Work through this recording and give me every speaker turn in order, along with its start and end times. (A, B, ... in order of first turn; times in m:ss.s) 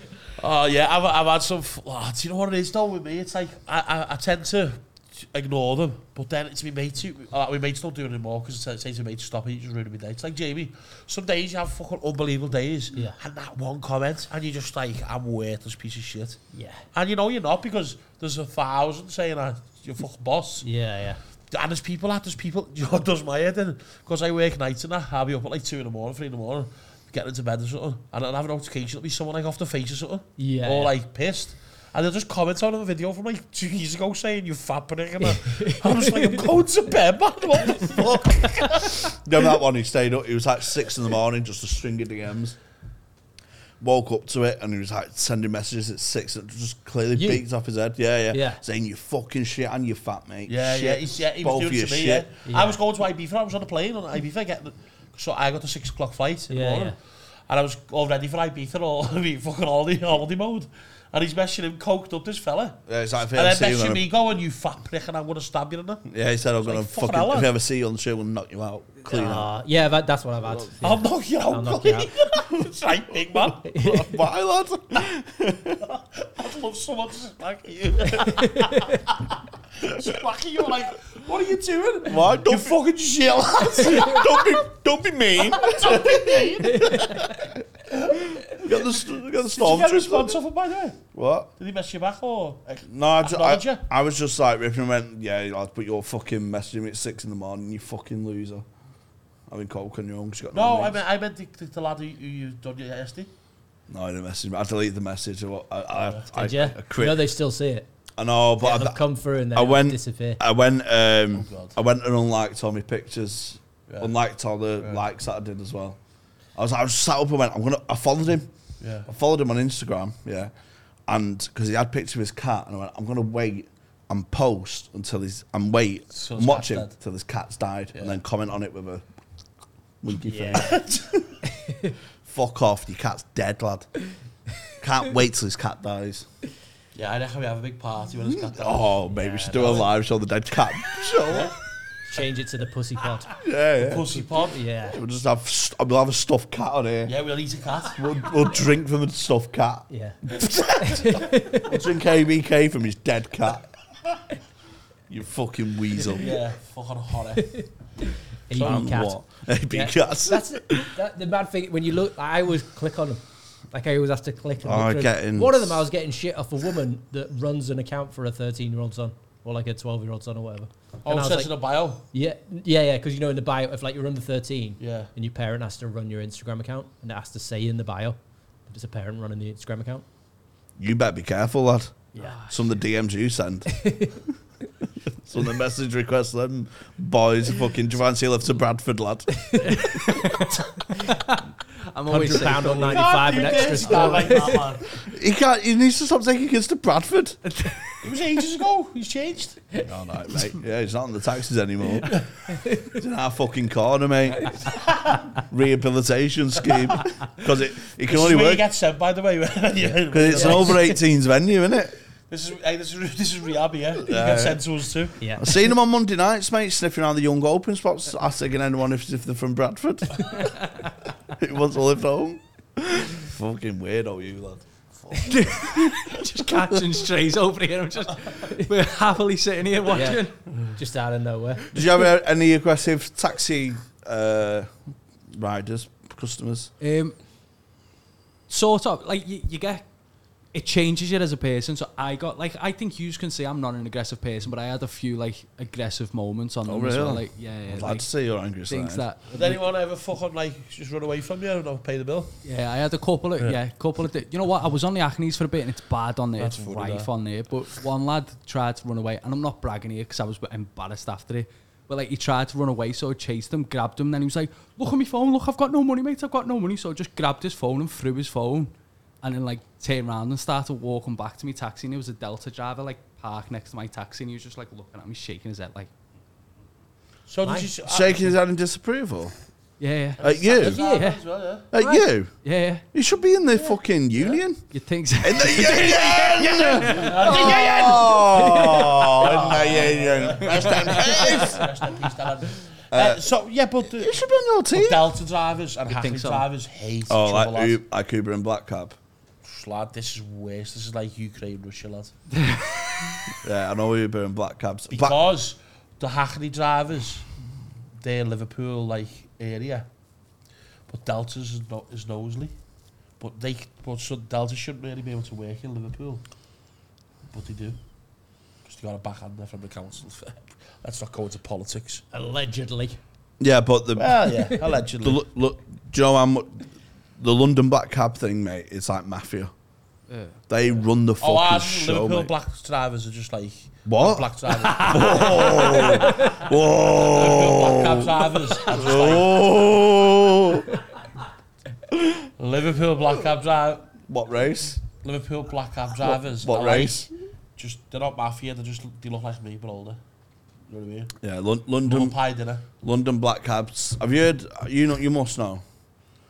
0:00.4-0:16.4 A
0:16.5-0:16.8 B
0:16.9-0:20.7 A
0:20.6-0:21.2 B
0:21.5-0:39.1 A
0:30.4-0:30.9 B
0:35.2-0:36.5 B
0:38.9-0:42.6 C
0:43.8-0:52.3 C
0:47.1-0:47.4 B
0:48.3-0:48.6 B
0:50.5-0:57.0 A
0:52.5-0:52.8 B
0:56.5-0:57.0 B
0:57.5-1:02.8 A
1:02.9-1:04.0 C
1:03.3-1:06.0 A
1:06.1-1:09.5 C
1:06.6-1:07.5 A
1:09.1-1:12.1 B
1:10.8-1:13.7 A
1:13.6-1:14.2 B
1:13.7-1:15.8 C
1:15.9-1:19.2 A
1:18.3-1:19.0 B
1:19.8-1:24.6 A
1:22.0-1:22.8 C
1:23.8-1:27.6 C
1:25.4-1:27.3 A
1:26.6-1:27.4 B
1:27.9-1:31.0 A
1:28.4-1:30.4 C
1:31.1-1:31.5 C
1:31.6-1:33.8 A
1:32.8-1:38.6 C
1:39.5-1:41.0 C
1:40.5-1:43.3 A
1:43.9-1:47.3 C
1:45.9-1:46.3 A
1:46.3-1:47.9 B
1:48.2-1:49.0 C
1:48.6-1:50.4 B
1:49.5-1:56.0 C
1:51.3-1:51.8 A
1:56.6-1:58.5 C
1:58.8-1:59.1 A
1:59.1-2:00.5 C
2:01.1-2:09.0 C
2:06.1-2:06.9 A
2:07.9-2:08.2 A
2:10.0-2:10.8 C
2:10.3-2:10.7 B
2:10.5-2:11.2 A
2:11.7-2:11.9 B
2:12.2-2:13.9 C
2:14.8-2:16.3 C
2:17.0-2:19.9 A
2:18.3-2:21.5 C
2:21.3-2:21.5 A
2:22.1-2:23.3 B
2:23.4-2:24.2 C
2:23.8-2:24.6 A
2:24.5-2:25.0 B
2:24.9-2:27.1 C
2:27.1-2:28.0 A
2:27.9-2:33.7 C
2:29.9-2:31.8 B
2:35.1-2:36.4 C
2:36.2-2:37.6 A
2:37.4-2:39.2 B
2:38.6-2:40.9 C
2:39.7-2:51.5 B
2:44.6-2:45.8 C
2:51.0-2:52.0 A
2:52.1-3:00.1 B
2:54.8-2:55.1 A
3:00.8-3:04.0 C
3:02.2-3:02.6 D
3:03.7-3:04.2 B
3:05.2-3:10.2 C
3:09.4-3:10.4 B
3:09.7-3:14.1 D
3:12.1-3:14.7 B
3:12.9-3:14.9 A
3:15.0-3:17.4 C
3:18.0-3:19.6 A
3:19.8-3:24.8 C
3:22.6-3:22.9 B
3:25.0-3:25.2 A
3:25.4-3:28.6 C
3:28.1-3:30.9 A
3:30.1-3:32.0 C
3:30.3-3:30.9 B
3:32.3-3:35.2 A
3:34.0-3:34.6 C
3:35.2-3:35.5 B
3:35.4-3:40.5 C
3:41.3-3:44.6 C
3:45.2-3:50.4 D
3:49.9-3:51.8 B
3:51.7-3:54.7 C
3:55.3-3:56.7 C
3:56.8-3:57.2 D
3:58.5-3:59.9 D
4:00.5-4:08.1 D
4:06.6-4:09.0 C
4:08.7-4:09.6 D
4:09.3-4:12.4 A
4:12.4-4:35.9 D
4:16.4-4:17.1 A
4:37.3-4:38.3 A
4:37.4-4:37.7 B
4:37.9-4:39.3 C
4:39.8-4:40.2 D
4:40.2-4:40.8 C
4:40.2-4:41.7 A
4:40.6-4:41.2 B
4:41.7-4:42.4 C
4:41.8-4:42.8 D
4:42.9-4:44.7 C
4:43.6-4:44.4 A
4:44.7-4:48.9 D
4:45.2-4:51.7 C
4:46.8-4:57.8 A
4:48.6-4:48.8 B
4:49.6-4:49.9 D
4:50.4-4:51.6 D
4:52.9-4:53.2 C
4:53.9-4:55.1 C
4:55.9-4:56.4 D
4:57.1-4:59.0 C
4:59.4-5:02.1 A
5:02.4-5:03.2 D
5:03.4-5:05.2 C
5:04.9-5:07.3 A
5:08.0-5:09.9 A
5:10.9-5:12.5 A
5:13.2-5:16.2 A
5:17.3-5:17.8 A
5:18.6-5:22.0 A
5:22.1-5:23.0 B
5:23.4-5:24.2 C
5:24.0-5:25.2 A
5:25.0-5:26.6 C
5:27.2-5:29.5 C
5:30.1-5:30.4 D
5:30.5-5:32.3 C
5:31.2-5:36.4 A
5:33.9-5:40.8 C
5:35.0-5:35.6 D
5:37.0-5:39.4 A
5:41.9-5:42.3 C
5:42.4-5:43.9 A
5:44.1-5:44.8 C
5:45.0-5:47.1 A
5:46.0-5:47.1 C
5:47.6-5:50.0 A
5:50.7-5:51.1 A
5:51.2-5:52.2 C
5:51.8-5:52.7 A
5:52.8-5:55.6 C